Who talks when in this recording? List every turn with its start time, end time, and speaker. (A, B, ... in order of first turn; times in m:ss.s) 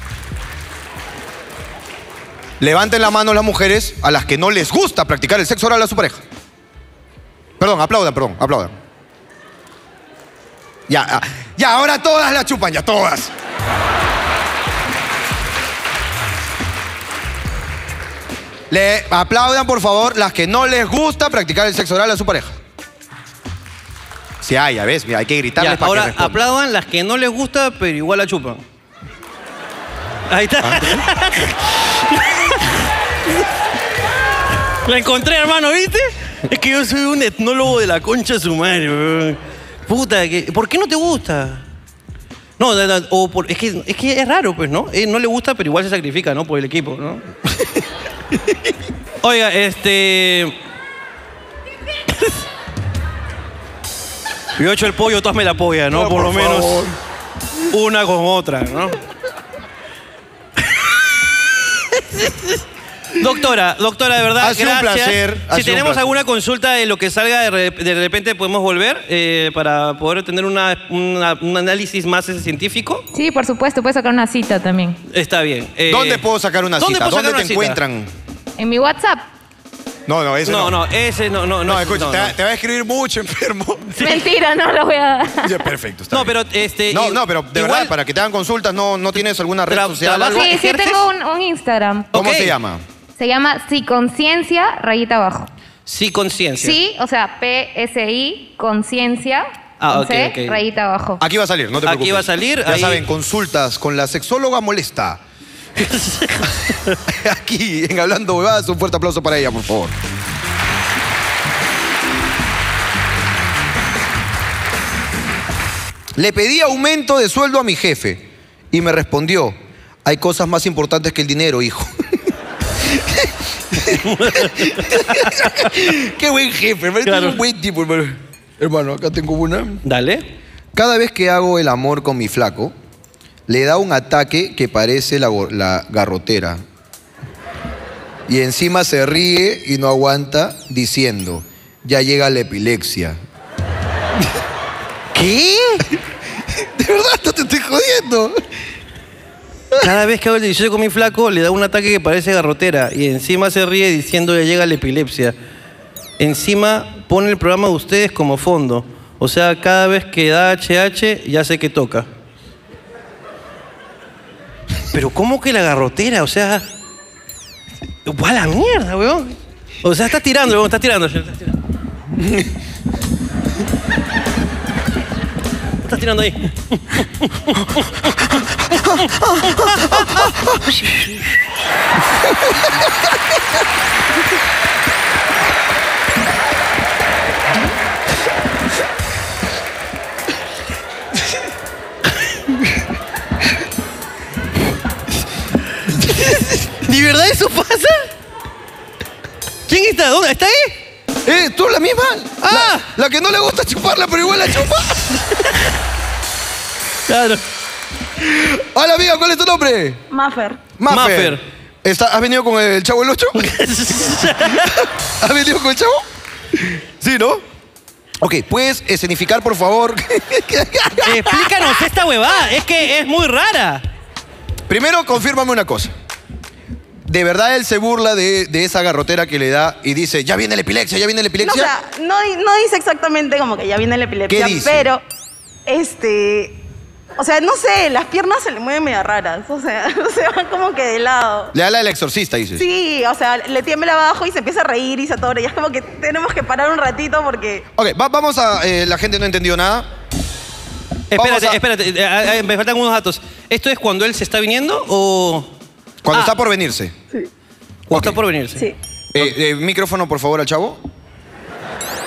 0:02.6-0:06.2 A
0:07.6-0:08.7 A
0:10.9-0:13.3 A
0:18.7-0:22.6 A
0:24.4-0:26.4 A
0:25.6-0:28.6 B
0:30.3-0:32.8 B
0:30.6-0:31.0 A
0:34.8-0:41.6 B
0:42.6-0:47.2 B
0:49.2-0:50.5 B
0:54.6-0:56.8 B
0:55.9-0:56.9 A
0:57.7-0:59.0 B
1:02.0-1:02.6 B
1:03.2-1:13.0 B
1:04.4-1:06.0 A
1:13.1-1:15.0 C
1:15.1-1:16.2 B
1:15.9-1:18.1 A
1:16.8-1:17.8 B
1:18.6-1:19.2 C
1:20.1-1:20.7 A
1:20.4-1:22.3 B
1:21.6-1:24.0 A
1:24.0-1:24.2 B
1:24.0-1:25.6 C
1:25.4-1:26.3 A
1:26.1-1:27.9 B
1:26.9-1:30.5 A
1:29.2-1:31.0 B
1:30.3-1:32.1 C
1:32.1-1:32.6 B
1:32.1-1:32.8 A
1:33.2-1:35.5 C
1:35.8-1:36.8 B
1:36.6-1:41.2 C
1:39.8-1:40.6 B
1:41.2-1:45.2 A
1:41.8-1:43.0 B
1:45.8-1:47.0 B
1:47.1-1:49.9 A
1:56.2-2:01.9 A
2:02.9-2:09.8 A
2:04.0-2:05.7 B
2:07.0-2:07.4 B
2:09.8-2:10.2 B
2:10.7-2:12.7 A
2:13.5-2:16.6 A
2:18.3-2:23.2 A
2:25.1-2:25.8 B
2:26.8-2:28.4 A
2:29.8-2:35.4 B
2:36.2-2:42.1 B
2:44.9-2:46.6 B
2:48.0-2:51.6 B
2:55.8-2:58.3 B
2:58.8-3:00.3 B
3:16.8-3:18.1 B
3:19.7-3:20.8 B
3:21.2-3:25.0 A
3:22.4-3:22.8 B
3:27.1-3:27.4 B
3:28.2-3:30.0 A
3:30.1-3:30.6 D
3:30.8-3:33.5 A
3:30.9-3:31.4 B
3:33.4-3:34.8 B
3:34.5-3:36.0 A
3:37.0-3:37.4 A
3:38.2-3:41.6 A
3:41.0-3:43.8 B
3:44.7-3:45.9 A
3:47.1-3:51.7 A
3:51.4-3:55.0 D
3:54.3-3:54.8 A
3:55.7-3:56.6 D
3:57.2-4:01.5 D
4:01.5-4:02.6 A
4:02.6-4:07.6 D
4:07.8-4:09.9 A
4:11.1-4:15.5 B
4:11.1-4:11.6 A
4:16.0-4:16.9 A
4:17.9-4:18.7 B
4:17.9-4:18.2 A
4:19.1-4:20.8 A